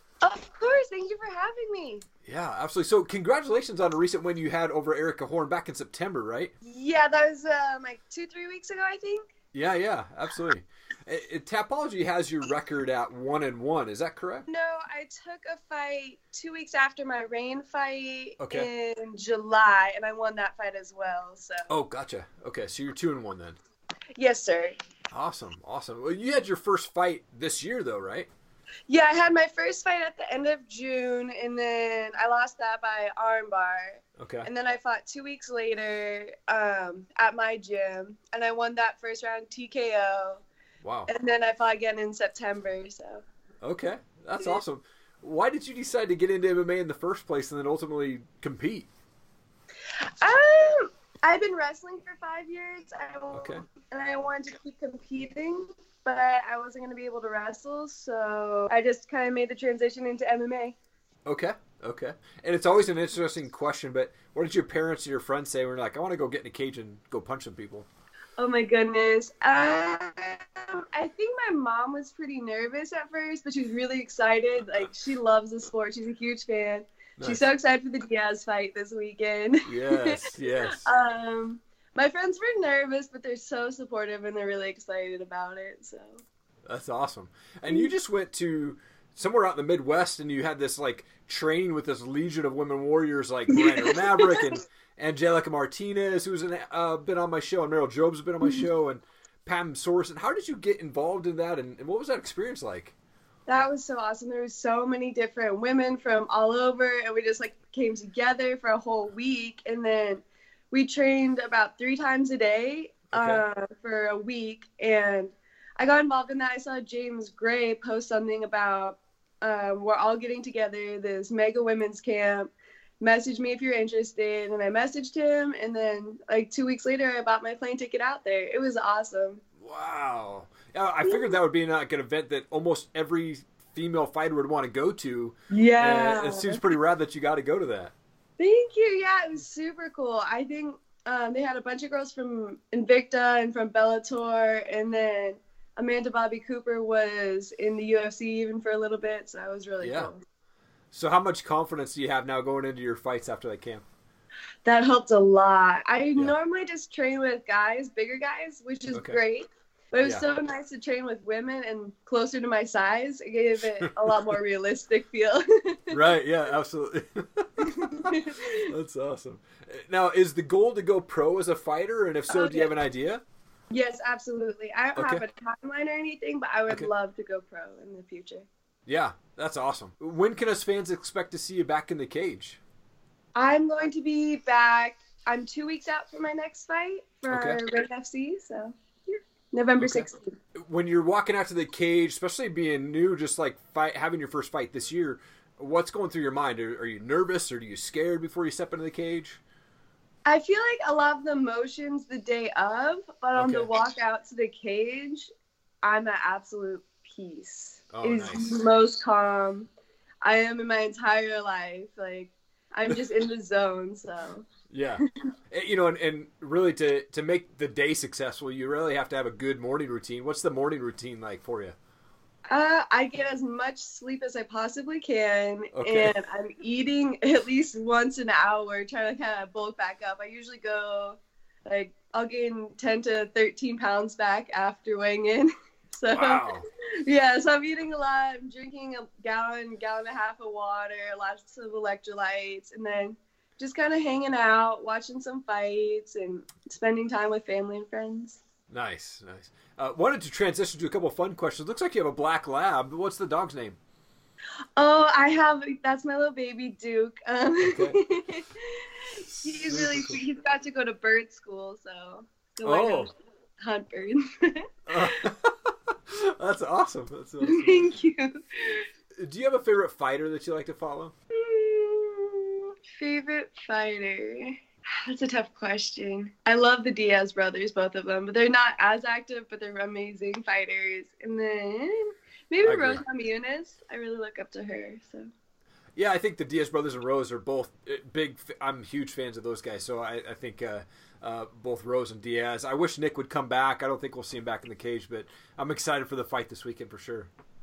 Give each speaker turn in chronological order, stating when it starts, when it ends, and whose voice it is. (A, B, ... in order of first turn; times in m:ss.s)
0:00.2-0:02.0 A
0:02.3-0:06.5 B
0:06.6-0:09.3 A
0:09.5-0:14.5 B
0:14.5-0:21.7 A
0:18.4-0:18.7 B
0:21.7-0:23.6 B
0:24.2-0:24.8 A
0:25.1-0:28.3 B
0:28.9-0:40.4 A
0:34.2-0:34.5 B
0:40.8-0:41.1 B
0:41.1-0:43.2 A
0:43.6-0:48.9 B
0:50.2-1:00.8 A
0:53.3-0:53.6 B
1:01.3-1:07.9 B
1:08.4-1:26.2 A
1:17.2-1:17.4 B
1:19.7-1:20.8 B
1:26.7-1:43.0 B
1:33.5-1:34.6 A
1:43.5-2:09.4 A
1:53.1-1:53.4 B
2:09.6-2:17.9 B
2:11.0-2:11.4 A
2:15.5-2:16.7 A
2:18.4-2:30.2 A
2:29.8-2:30.1 B
2:30.9-2:33.8 B
2:34.6-2:46.1 A
2:38.9-2:39.2 B
2:43.8-2:44.1 B
2:45.9-2:53.2 B
2:47.6-2:48.7 A
2:52.3-2:52.7 A
2:53.7-2:58.5 A
2:55.0-2:55.2 B
2:58.9-3:02.6 B
3:03.4-3:10.4 A
3:07.3-3:07.6 B
3:09.8-3:19.4 B
3:20.3-3:25.3 A
3:23.4-3:23.7 B
3:25.8-3:29.7 A
3:27.9-3:28.6 B
3:30.2-3:34.5 A
3:34.7-3:41.8 B
3:42.5-3:56.6 A
3:45.7-3:46.1 B
3:56.1-3:56.6 B
3:57.1-4:08.4 A
4:08.7-4:13.8 B
4:14.8-4:25.1 A
4:17.6-4:18.0 B
4:19.3-4:20.2 B
4:22.6-4:23.1 B
4:24.9-4:27.9 B
4:27.4-4:28.9 A
4:29.2-4:31.1 B
4:31.4-4:45.3 A
4:42.6-4:43.0 B
4:46.0-4:57.3 B